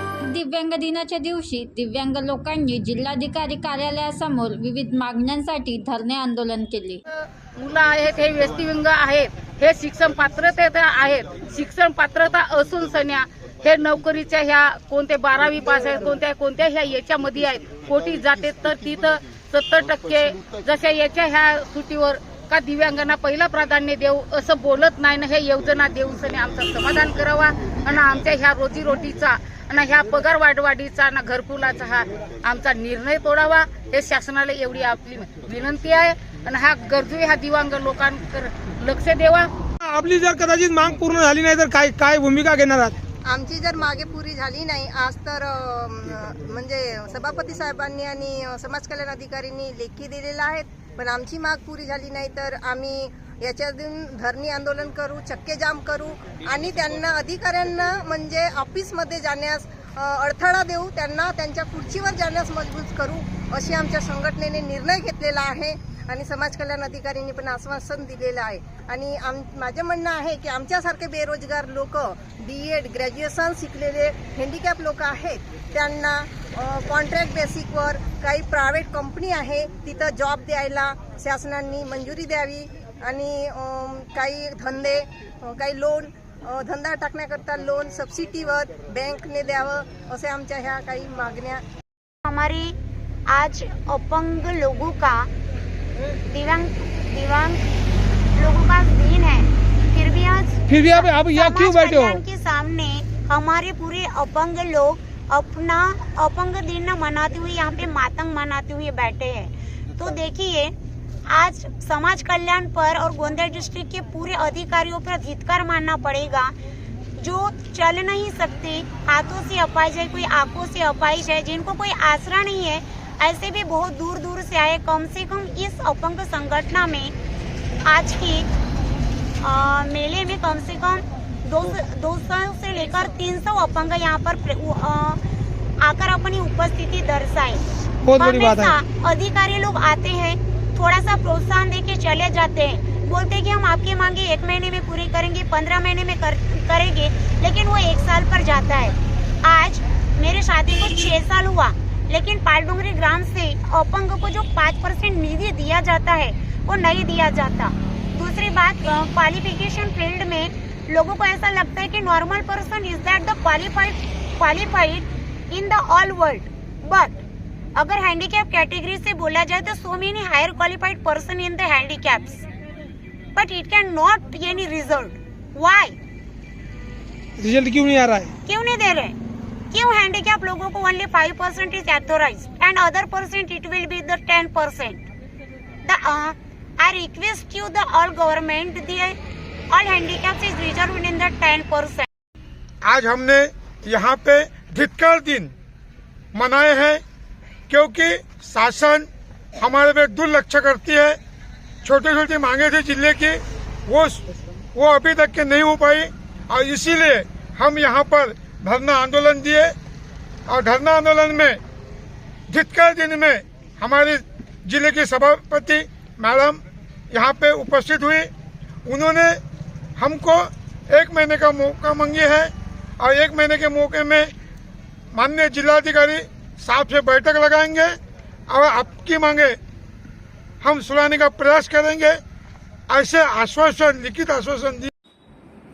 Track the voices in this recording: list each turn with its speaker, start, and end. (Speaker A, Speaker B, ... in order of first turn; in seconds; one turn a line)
Speaker A: 0.3-7.0
Speaker B: 7.5-39.5
Speaker C: 39.8-43.0
Speaker D: 43.2-91.6
Speaker E: 92.2-92.7
Speaker E: 93.3-95.3
Speaker E: 96.2-97.6
Speaker E: 98.3-110.7
Speaker C: 100.7-102.2
Speaker E: 111.3-116.5
Speaker E: 117.2-127.1
Speaker E: 127.8-128.5
Speaker E: 129.4-135.2
Speaker E: 135.8-137.6
Speaker C: 138.0-138.7
Speaker E: 138.1-167.2
Speaker E: 167.7-172.4
Speaker E: 173.3-176.0
Speaker C: 177.4-178.3
Speaker E: 178.4-179.1
Speaker E: 179.7-185.0
Speaker E: 185.8-189.2
Speaker E: 189.7-192.1
Speaker F: 192.8-195.5
Speaker F: 196.3-197.0
Speaker F: 197.7-201.2
Speaker F: 201.8-209.7
Speaker F: 210.5-211.6
Speaker F: 212.5-216.6
Speaker F: 217.1-218.3
Speaker F: 218.9-219.4
Speaker F: 220.0-224.3
Speaker F: 225.1-227.9
Speaker F: 228.5-229.6
Speaker F: 230.6-232.2
Speaker F: 232.9-234.9